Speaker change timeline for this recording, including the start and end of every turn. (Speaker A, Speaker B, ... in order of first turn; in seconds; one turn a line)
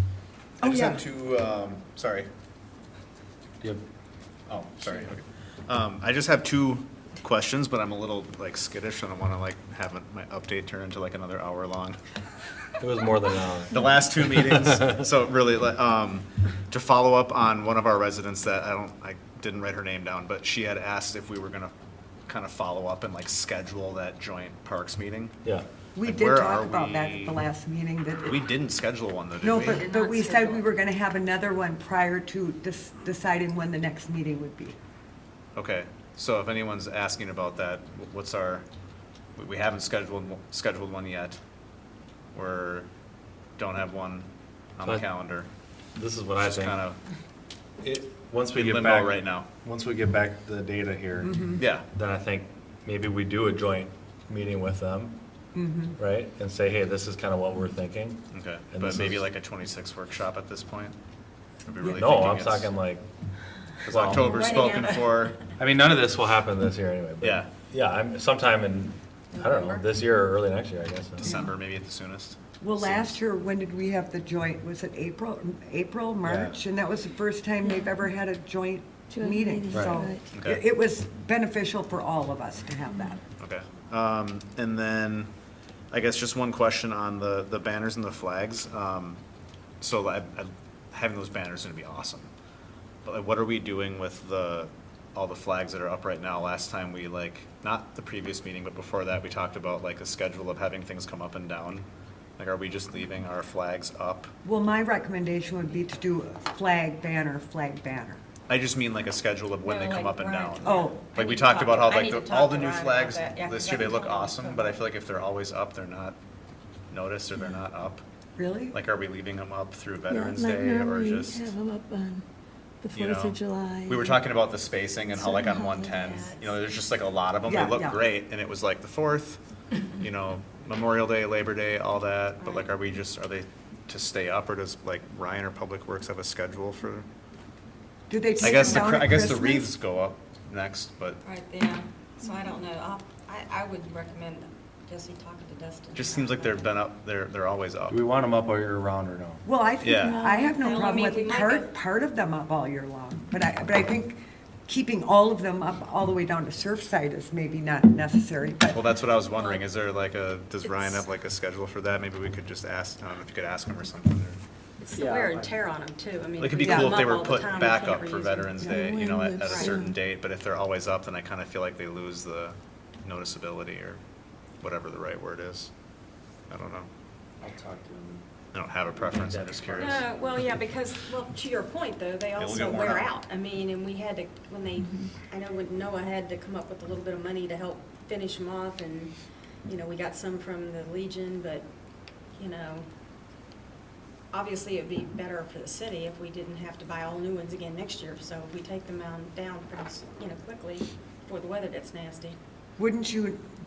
Speaker A: 0.6-2.3
Speaker B: 0.6-1.0
Speaker A: 4.5-12.0
Speaker C: 12.8-13.9
Speaker A: 13.7-21.7
Speaker C: 14.5-15.0
Speaker A: 22.3-25.4
Speaker B: 25.9-28.5
Speaker A: 26.0-27.4
Speaker A: 28.2-29.9
Speaker B: 29.4-34.8
Speaker D: 29.5-30.6
Speaker A: 35.5-38.6
Speaker A: 39.4-41.4
Speaker A: 42.3-42.9
Speaker A: 43.6-45.5
Speaker C: 46.0-46.8
Speaker A: 46.4-47.0
Speaker C: 47.8-55.2
Speaker A: 48.5-49.5
Speaker B: 51.2-51.6
Speaker A: 51.6-51.9
Speaker B: 55.5-56.0
Speaker C: 56.0-59.3
Speaker A: 58.3-60.9
Speaker A: 61.6-62.7
Speaker C: 61.8-63.0
Speaker A: 63.8-65.4
Speaker C: 63.9-64.4
Speaker D: 64.0-65.3
Speaker C: 65.6-71.3
Speaker A: 67.2-67.5
Speaker D: 69.3-69.9
Speaker A: 71.2-73.2
Speaker B: 71.2-71.5
Speaker B: 72.6-83.2
Speaker C: 76.2-76.6
Speaker E: 77.6-78.0
Speaker E: 79.1-80.3
Speaker C: 79.7-80.0
Speaker A: 80.3-80.6
Speaker A: 83.4-85.3
Speaker A: 85.9-89.2
Speaker A: 89.8-92.3
Speaker A: 93.0-101.8
Speaker A: 102.4-104.3
Speaker B: 104.4-108.2
Speaker A: 108.5-116.2
Speaker D: 109.6-114.8
Speaker B: 110.6-111.0
Speaker A: 116.9-118.0
Speaker B: 118.3-118.8
Speaker A: 118.7-121.5
Speaker E: 120.1-122.2
Speaker E: 122.8-124.2
Speaker A: 122.9-129.4
Speaker E: 125.1-126.1
Speaker D: 125.9-126.5
Speaker B: 127.4-128.0
Speaker A: 129.9-137.1
Speaker D: 132.4-132.7
Speaker B: 138.1-139.7
Speaker A: 138.4-141.2
Speaker D: 138.4-138.8
Speaker D: 141.2-146.7
Speaker A: 145.9-148.0
Speaker C: 147.9-149.4
Speaker B: 149.4-158.8
Speaker A: 149.8-150.2
Speaker E: 149.8-151.1
Speaker D: 150.4-151.7
Speaker A: 158.7-164.4
Speaker D: 159.3-159.6
Speaker D: 160.6-161.1
Speaker D: 164.8-168.7
Speaker F: 164.9-165.5
Speaker A: 166.4-174.0
Speaker B: 166.6-167.0
Speaker E: 168.6-169.9
Speaker D: 169.4-169.8
Speaker A: 174.6-175.7
Speaker A: 176.5-176.9
Speaker F: 177.4-178.2
Speaker A: 178.5-180.0
Speaker F: 178.9-180.1
Speaker D: 179.8-191.7
Speaker A: 182.4-183.1
Speaker D: 192.3-192.8
Speaker D: 194.3-202.4
Speaker B: 202.8-203.4